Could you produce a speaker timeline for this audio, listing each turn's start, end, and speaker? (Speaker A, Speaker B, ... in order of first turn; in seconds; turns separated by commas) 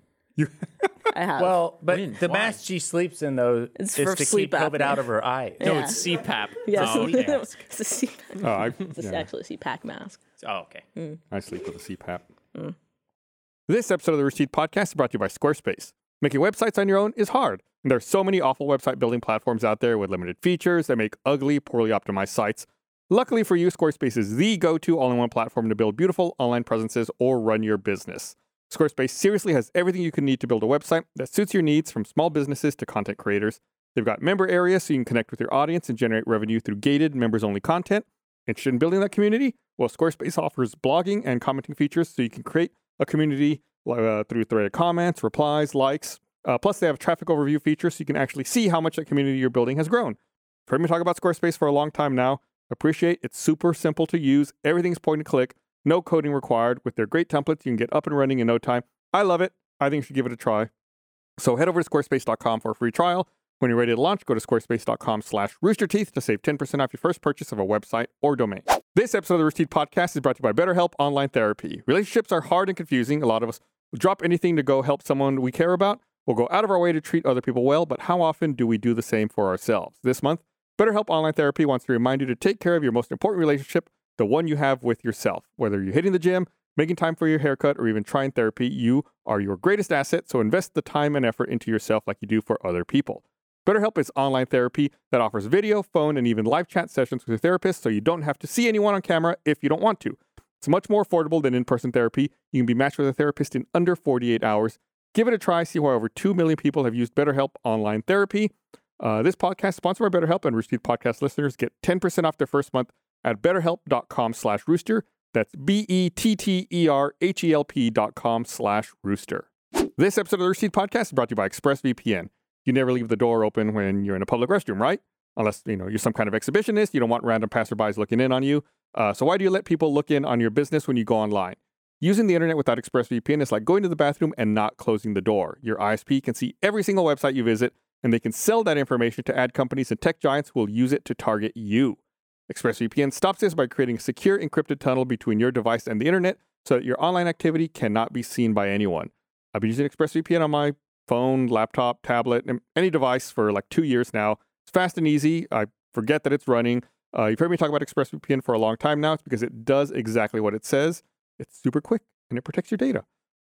Speaker A: 0.4-0.9, Speaker B: 1.1-1.6, Speaker C: 1.4-5.9, Speaker D: 1.9-2.6, Speaker B: 3.8-5.0, Speaker B: 5.6-6.0, Speaker D: 5.6-7.5, Speaker B: 6.6-10.2, Speaker A: 8.4-9.3, Speaker D: 10.4-10.8, Speaker A: 11.3-12.2, Speaker A: 13.7-60.7, Speaker A: 61.4-163.0